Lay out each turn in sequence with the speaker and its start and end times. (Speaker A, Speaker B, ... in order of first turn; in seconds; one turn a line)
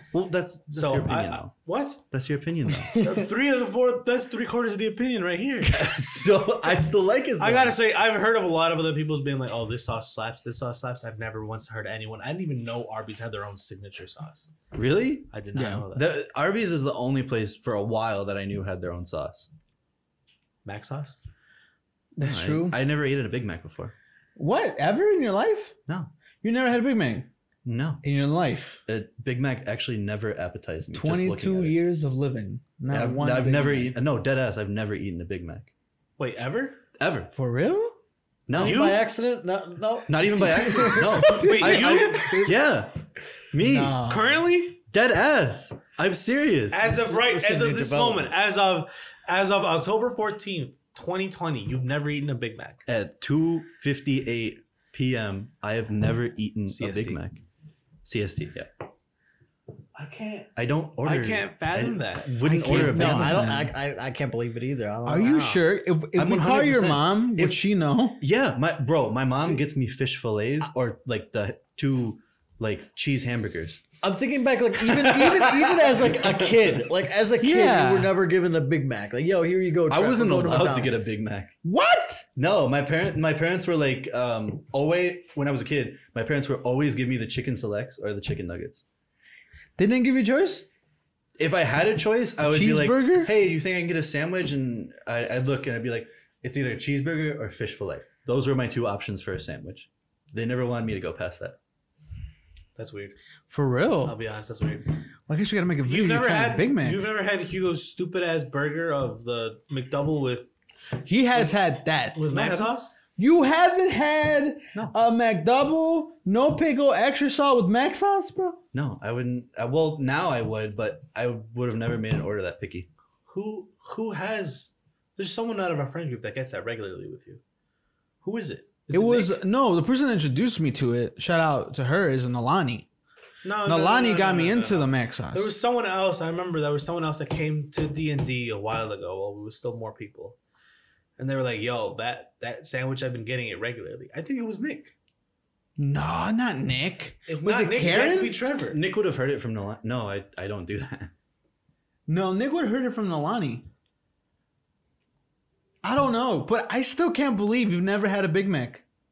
Speaker A: 0.1-1.6
Speaker B: 0.7-2.0
Speaker A: 2.1-3.0
Speaker C: 2.9-3.2
Speaker B: 3.0-5.9
Speaker A: 5.7-7.8
Speaker B: 7.4-14.5
Speaker A: 14.7-15.3
Speaker B: 15.3-16.2
Speaker D: 15.5-15.9
Speaker A: 15.9-19.5
Speaker B: 20.6-21.2
Speaker D: 22.1-22.8
Speaker A: 22.2-23.9
Speaker D: 24.4-25.8
Speaker D: 26.4-27.3
Speaker A: 27.7-28.0
Speaker D: 28.0-28.8
Speaker A: 28.9-31.8
Speaker D: 30.9-34.0
Speaker A: 32.9-35.7
Speaker B: 36.2-36.8
Speaker A: 37.0-37.3
Speaker D: 37.3-38.0
Speaker A: 38.5-38.9
Speaker C: 38.5-41.3
Speaker B: 38.5-39.1
Speaker A: 40.1-43.0
Speaker D: 40.8-42.6
Speaker B: 41.2-42.4
Speaker A: 43.5-44.0
Speaker D: 43.6-44.4
Speaker B: 44.0-44.8
Speaker A: 44.9-46.8
Speaker B: 46.7-52.8
Speaker C: 46.8-48.3
Speaker A: 52.9-57.4
Speaker B: 56.7-57.2
Speaker A: 58.0-58.8
Speaker B: 60.0-60.5
Speaker A: 60.6-63.5
Speaker B: 61.0-62.4
Speaker D: 62.4-63.7
Speaker C: 62.7-65.6
Speaker D: 65.0-68.2
Speaker B: 65.2-65.6
Speaker A: 66.1-67.6
Speaker A: 68.2-73.8
Speaker C: 74.0-81.1
Speaker A: 74.8-76.9
Speaker D: 77.4-78.2
Speaker A: 79.9-81.5
Speaker D: 81.6-82.2
Speaker A: 82.4-88.8
Speaker D: 89.8-90.7
Speaker A: 91.4-101.6
Speaker D: 92.4-93.3
Speaker B: 102.8-103.2
Speaker D: 103.5-104.2
Speaker B: 104.0-105.0
Speaker D: 105.3-107.1
Speaker B: 105.8-110.5
Speaker D: 111.0-118.6
Speaker B: 112.2-112.9
Speaker A: 118.7-122.9
Speaker B: 123.3-127.4
Speaker B: 128.2-129.4
Speaker D: 128.9-132.9
Speaker B: 133.4-140.4
Speaker D: 133.7-135.6
Speaker B: 141.2-144.9
Speaker D: 145.8-148.4
Speaker B: 147.3-148.8
Speaker A: 148.7-151.1
Speaker D: 152.1-153.7
Speaker D: 155.8-158.8